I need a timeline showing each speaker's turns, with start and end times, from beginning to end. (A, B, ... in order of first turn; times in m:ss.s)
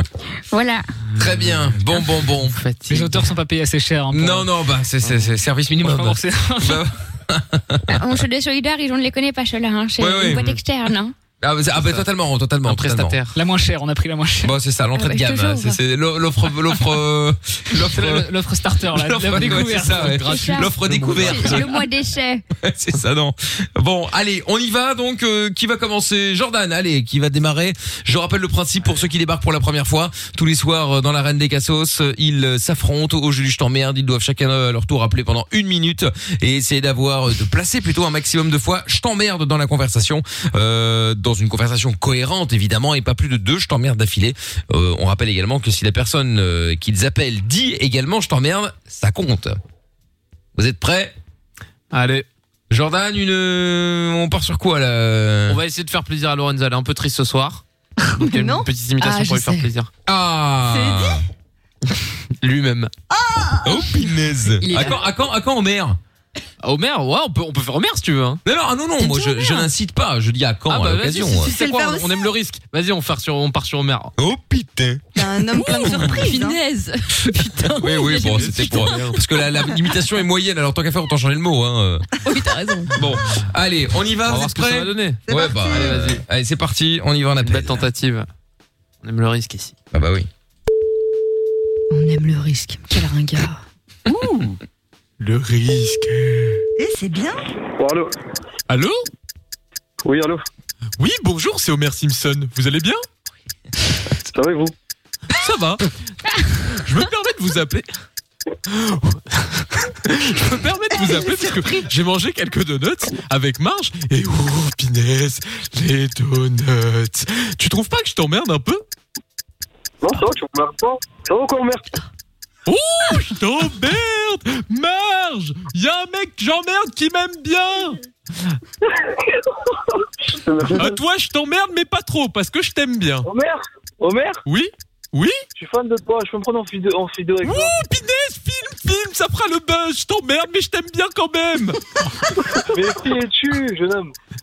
0:00.5-0:00.9 A
0:01.2-0:02.6 B
0:01.4-0:01.7 C
0:02.5-0:03.3 C
0:02.9-0:04.5 D
0:04.1-0:08.2 B
0:05.0-0:05.3 C
0:05.8-0:06.9 D
0:07.9-0:11.2 A
0:10.0-0:10.4 B
0:10.3-0:10.6 C
0:11.4-0:13.2 B
0:11.8-0:12.1 C
0:12.7-0:13.4 C
0:13.4-0:14.5 D
0:14.4-0:18.3 B
0:15.0-0:15.8 E
0:17.8-0:20.2 D
0:18.9-0:21.8 B
0:19.3-0:21.8 C
0:20.2-0:22.4 A
0:22.6-0:49.6 B
0:50.6-0:51.2 B
0:51.9-0:52.3 C
0:52.7-0:55.6 B
0:55.5-0:57.6 C
0:58.2-0:59.9 C
0:58.2-0:58.7 F
0:59.0-0:59.7 E
1:00.1-1:01.2 B
1:00.6-1:01.2 F
1:02.4-1:02.9 C
1:03.1-1:03.9 F
1:03.6-1:06.0 B
1:04.6-1:05.0 E
1:06.6-1:08.4 C
1:08.4-1:11.5 B
1:09.0-1:09.7 E
1:10.7-1:14.1 C
1:11.4-1:12.3 F
1:14.2-1:15.0 B
1:15.2-1:16.6 F
1:15.6-1:19.0 E
1:17.8-1:22.1 B
1:18.1-1:19.2 C
1:22.2-1:23.0 E
1:23.0-1:27.9 B
1:24.3-1:26.2 C
1:25.3-1:26.0 F
1:27.4-1:28.3 C
1:29.0-1:29.7 C
1:29.9-1:30.3 B
1:31.9-1:33.6 E
1:34.1-1:34.6 C
1:35.2-1:36.6 C
1:36.8-1:37.4 F
1:37.8-1:38.1 G
1:38.7-1:39.0 C
1:40.0-1:40.4 G
1:41.0-1:43.0 C
1:44.4-1:44.7 G
1:45.4-1:45.8 C
1:46.7-1:47.9 C
1:48.7-1:58.8 C
1:51.0-1:51.9 F
2:00.0-2:01.9 G
2:02.7-2:08.0 C
2:10.4-2:11.0 G
2:10.7-2:13.3 C
2:14.5-2:15.4 C
2:15.6-2:17.7 G
2:17.4-2:21.8 C
2:22.8-2:24.0 G